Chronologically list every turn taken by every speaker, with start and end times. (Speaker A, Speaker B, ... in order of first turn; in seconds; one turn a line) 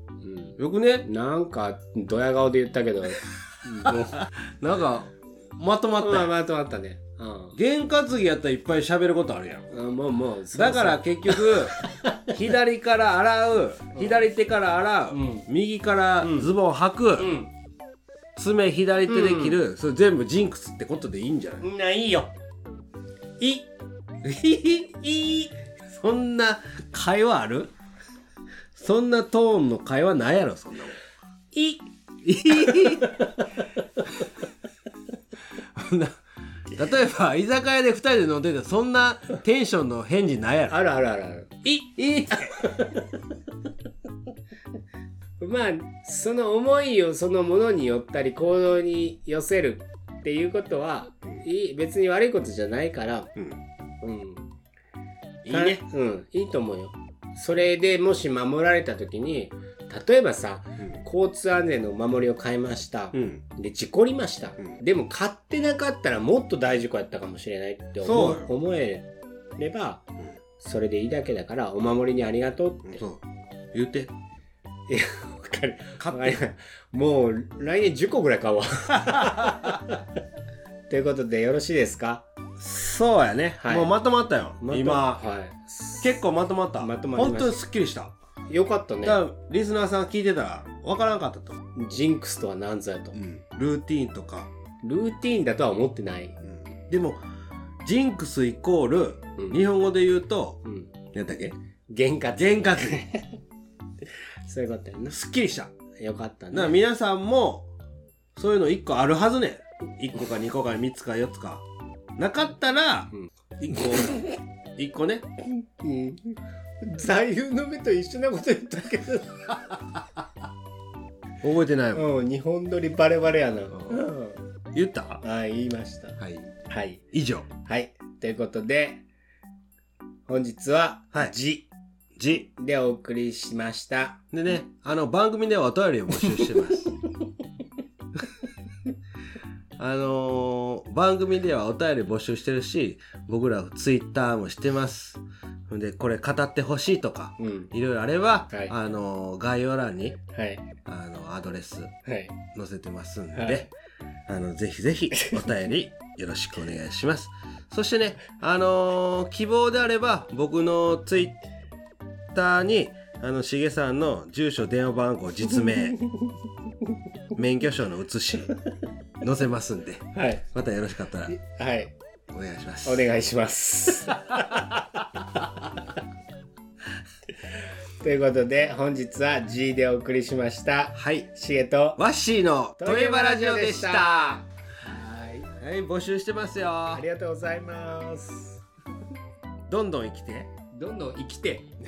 Speaker A: 0.2-4.3
Speaker B: 0.6-1.1
Speaker B: 3.9-6.3
Speaker A: 6.0-7.6
Speaker B: 7.5-9.7
Speaker A: 9.7-12.3
Speaker B: 10.5-17.4
Speaker A: 13.9-14.2
Speaker A: 15.1-15.5
Speaker A: 16.2-16.5
Speaker A: 17.2-17.5
Speaker B: 18.4-21.6
Speaker A: 19.1-19.6
Speaker A: 21.6-22.3
Speaker A: 23.4-23.7
Speaker B: 24.2-27.7
Speaker B: 28.8-31.0
Speaker A: 31.5-31.8
Speaker B: 32.2-33.3
Speaker A: 32.6-33.3
Speaker B: 35.6-36.2
Speaker B: 36.7-40.8
Speaker A: 40.7-43.0
Speaker B: 42.0-42.8
Speaker A: 45.4-53.3
Speaker A: 54.0-54.5
Speaker B: 55.4-55.8
Speaker A: 55.5-70.1
Speaker B: 63.1-63.4
Speaker B: 68.0-68.5
Speaker A: 70.6-73.0
Speaker B: 72.8-73.2
Speaker B: 73.7-74.1
Speaker A: 74.9-80.0
Speaker B: 76.0-76.4
Speaker B: 79.0-79.8
Speaker A: 80.9-82.2
Speaker B: 82.6-85.2
Speaker A: 83.6-83.9
Speaker A: 84.6-86.2
Speaker B: 86.0-88.1
Speaker A: 86.8-87.6
Speaker A: 88.5-89.2
Speaker B: 89.0-91.6
Speaker A: 91.7-93.2
Speaker B: 93.1-94.5
Speaker A: 94.8-96.4
Speaker B: 96.4-97.2
Speaker B: 97.8-101.5
Speaker A: 100.6-100.9
Speaker A: 101.9-103.4
Speaker B: 102.3-103.0
Speaker A: 104.4-105.2
Speaker B: 105.1-105.7
Speaker A: 106.0-106.8
Speaker B: 106.5-107.7
Speaker B: 108.3-111.7
Speaker B: 112.2-115.3
Speaker A: 115.6-119.7
Speaker B: 121.4-122.0
Speaker A: 121.9-124.4
Speaker B: 123.7-124.0
Speaker B: 124.7-125.2
Speaker A: 125.2-129.0
Speaker B: 126.2-126.5
Speaker B: 127.1-127.5
Speaker A: 130.3-131.7
Speaker B: 132.2-132.5
Speaker A: 132.5-134.2
Speaker B: 134.3-136.9
Speaker B: 139.8-150.2
Speaker A: 147.4-147.7
Speaker A: 150.3-150.7
Speaker B: 150.8-151.9
Speaker A: 152.1-152.4
Speaker B: 152.5-153.7
Speaker A: 153.3-153.7
Speaker B: 154.3-161.4
Speaker B: 162.3-166.0
Speaker B: 167.3-168.5
Speaker B: 169.2-171.3
Speaker A: 170.1-170.4
Speaker A: 171.3-171.9
Speaker B: 172.3-173.1
Speaker A: 172.8-174.8
Speaker A: 178.0-182.0
Speaker B: 180.9-181.3
Speaker B: 182.0-184.4
Speaker A: 182.8-185.5
Speaker B: 185.6-187.0
Speaker A: 186.9-188.6
Speaker B: 189.7-190.5
Speaker A: 190.7-191.7